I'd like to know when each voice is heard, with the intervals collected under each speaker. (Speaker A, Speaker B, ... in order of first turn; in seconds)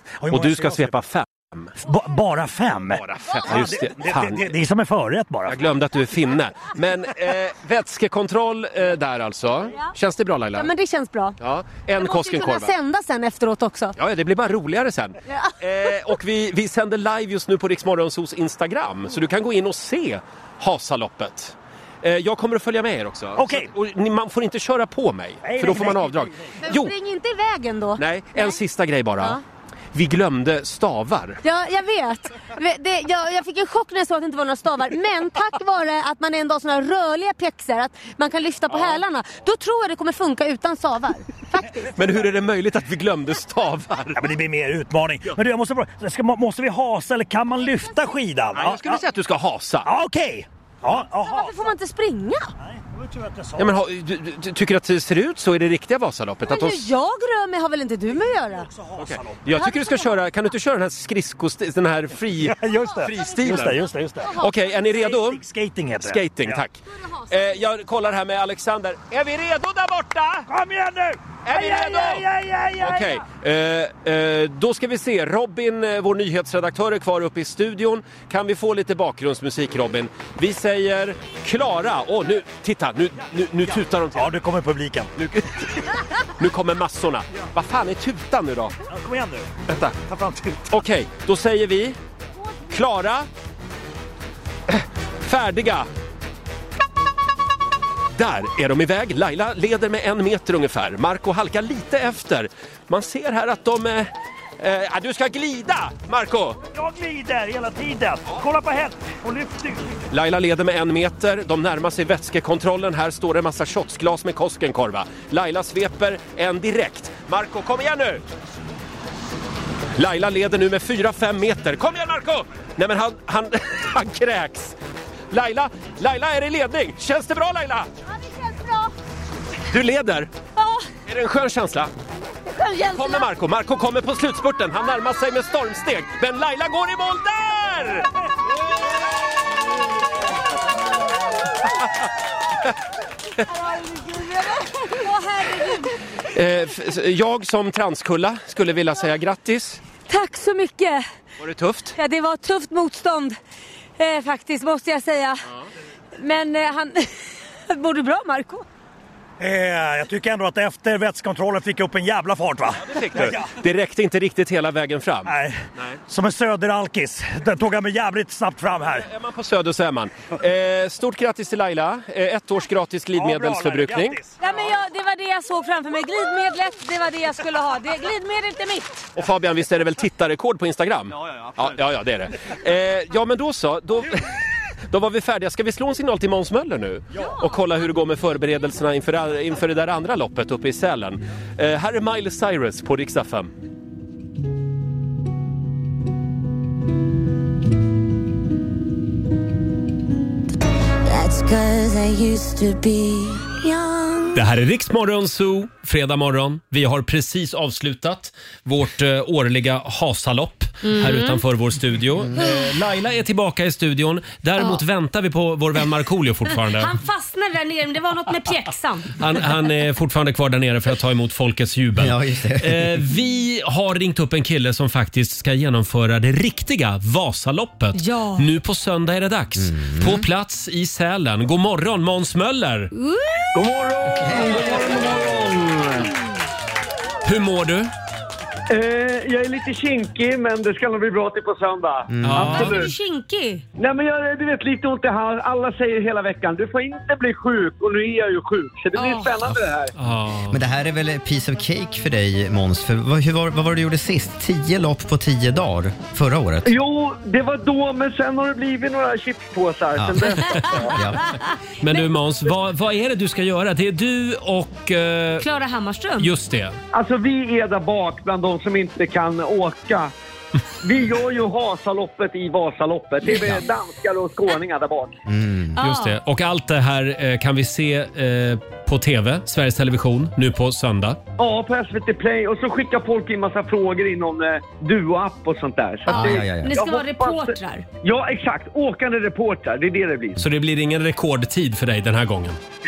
Speaker A: 0.2-1.0, 1.8-5.6, 23.4-23.7, 25.4-26.6, 44.1-49.0, 49.9-51.7, 52.6-53.8, 58.1-59.6, 62.4-64.3, 64.9-66.6, 70.5-73.2, 83.7-85.1, 88.9-90.7, 106.7-110.0, 159.4-163.5, 165.3-169.1, 173.2-174.4
Speaker B: 0.3-1.7, 2.9-4.6, 5.5-10.7, 11.4-12.7, 14.0-26.9, 28.0-29.4, 29.9-31.4, 38.7-39.0, 42.0-44.2, 48.5-49.9, 53.6-56.9, 59.0-63.8, 64.4-65.4, 66.0-70.5, 71.5-72.2, 72.8-84.3, 85.2-85.8, 86.4-88.8, 89.7-89.9, 90.7-92.0, 92.7-93.3, 94.7-95.9, 98.2-106.6, 110.1-118.2, 120.0-124.8, 125.3-127.9, 129.7-130.3, 131.1-131.9, 132.9-138.1, 146.3-149.8, 151.4-151.9, 162.8-166.0, 169.0-174.2, 179.2-184.3, 184.9-193.5, 204.3-216.9, 219.2-232.9, 237.2-237.9, 242.2-242.8, 249.9-250.6, 261.8-265.4, 266.2-266.8, 275.8-281.2, 290.4-292.6
Speaker C: 10.6-11.4, 12.0-13.9, 26.6-28.6, 31.4-41.9, 51.2-52.5, 56.5-58.7, 59.6-60.2, 62.7-64.8, 67.0-67.6, 128.1-128.9, 130.6-130.9, 132.5-133.3, 143.5-145.9, 150.1-151.1, 152.0-153.4, 154.0-155.4, 156.2-157.1, 157.7-158.6, 174.4-179.1, 210.8-211.4, 216.8-219.1, 228.0-228.5, 233.0-233.5, 242.4-243.6, 248.9-249.4, 265.4-266.3, 275.8-276.2, 286.1-287.9
Speaker D: 201.1-204.4
Speaker E: 222.0-223.0, 229.6-230.2, 242.1-242.7, 250.5-256.7, 260.0-260.3, 260.9-261.2, 275.3-275.8, 286.1-286.8
Speaker F: 233.6-236.1, 238.7-242.9, 243.8-249.9, 256.7-261.0, 266.9-270.1, 270.8-275.2, 281.4-290.4